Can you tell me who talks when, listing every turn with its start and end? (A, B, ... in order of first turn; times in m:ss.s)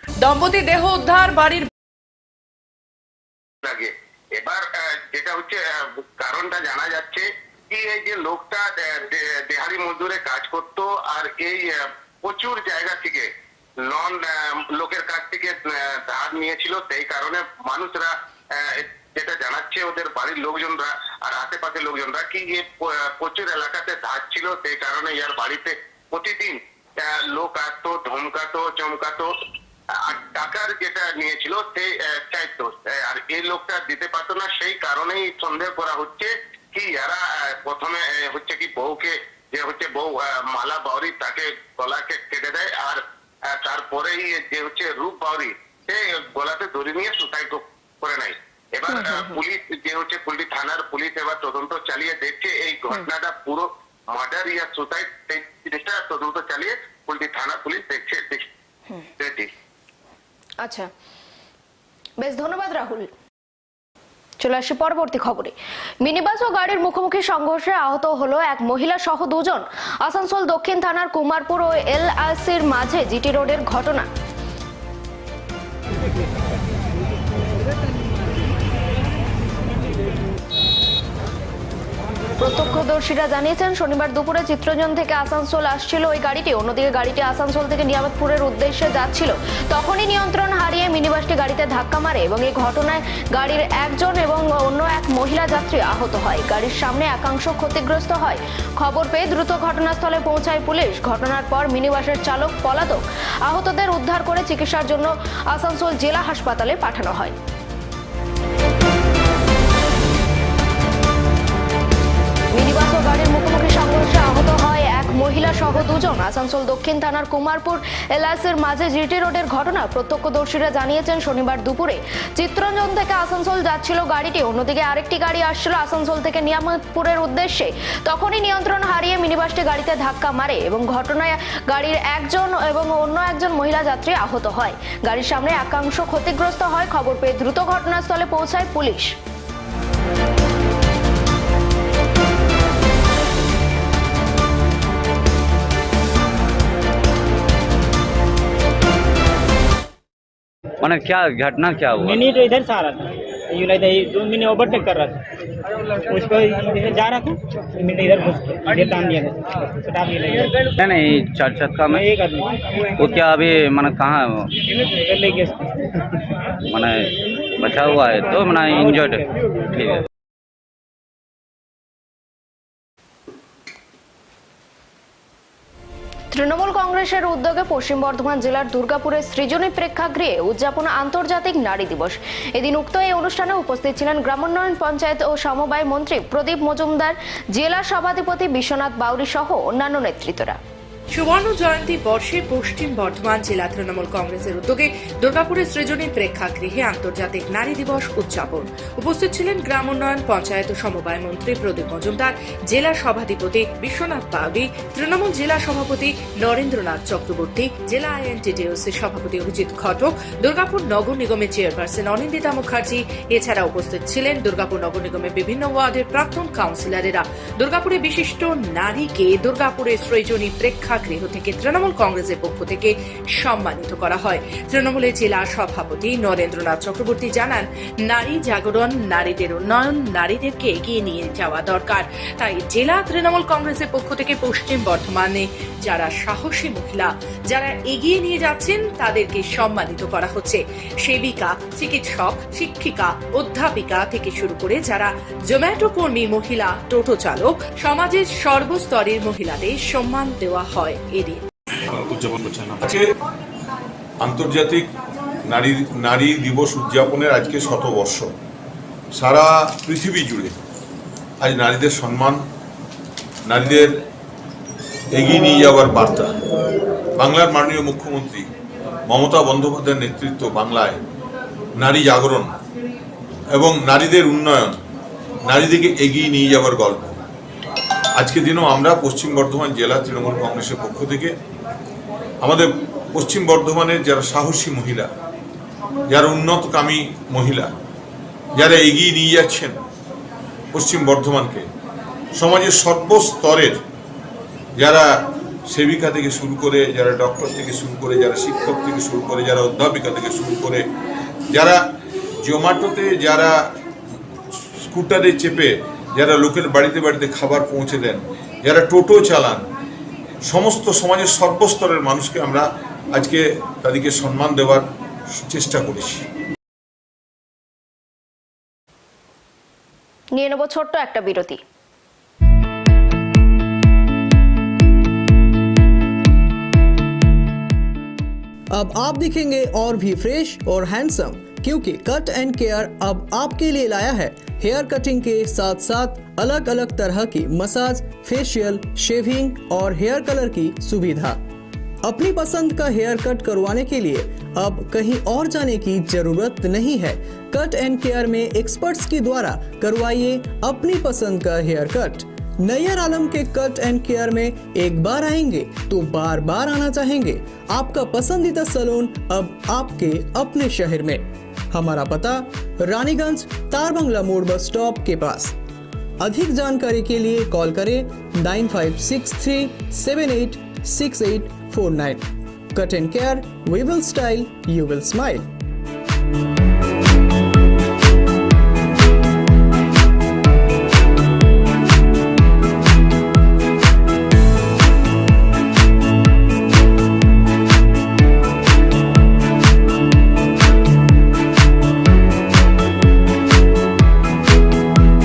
0:00.2-0:01.7 A
0:03.7-0:04.6 B
0:05.1-0:05.6 B
0:06.2-0:11.7 B
0:12.2-0:13.3 B
0:13.9-0:14.2 B
0:14.8-0:18.1 B
0:19.2-0:26.6 B
0:27.1-0:29.3 B
0:30.1-0:43.0 B
0:43.6-0:58.4 B
0:48.9-0:49.4 C
1:00.6-1:00.9 C
1:02.2-1:03.1 C
1:04.4-1:14.1 C
1:22.4-1:47.4 C
1:52.5-2:19.1 C
2:30.8-2:32.2 D
2:32.0-2:35.2 E
2:36.1-2:40.6 E
2:40.8-2:42.1 D
2:42.0-2:42.4 E
2:43.0-2:44.3 D
2:45.0-2:45.6 E
2:46.7-2:47.0 D
2:47.6-2:50.0 D
2:48.7-2:49.0 E
2:56.3-3:10.6 C
3:11.1-4:11.4 A
4:14.2-4:14.8 F
4:15.5-4:18.3 F
4:19.2-4:20.5 F
4:21.4-4:22.4 F
4:23.5-4:23.9 F
4:25.2-4:26.2 F
4:27.2-4:28.4 F
4:29.1-4:31.0 F
4:31.8-4:32.5 F
4:33.6-4:34.8 F
4:35.5-4:37.2 F
4:38.2-4:41.3 F
4:43.2-4:45.1 F
4:46.1-4:47.7 F
4:48.6-4:49.7 F
4:50.7-4:51.6 F
4:52.4-4:53.8 F
4:55.7-5:00.8 F
5:02.4-5:03.5 F
5:04.9-5:09.6 F
5:10.5-5:12.6 F
5:13.2-5:14.8 F
5:15.4-5:16.2 F
5:20.4-5:21.6 C
5:28.7-5:41.4 G
5:42.0-6:01.2 G
6:01.7-6:05.5 G
6:06.2-6:15.4 G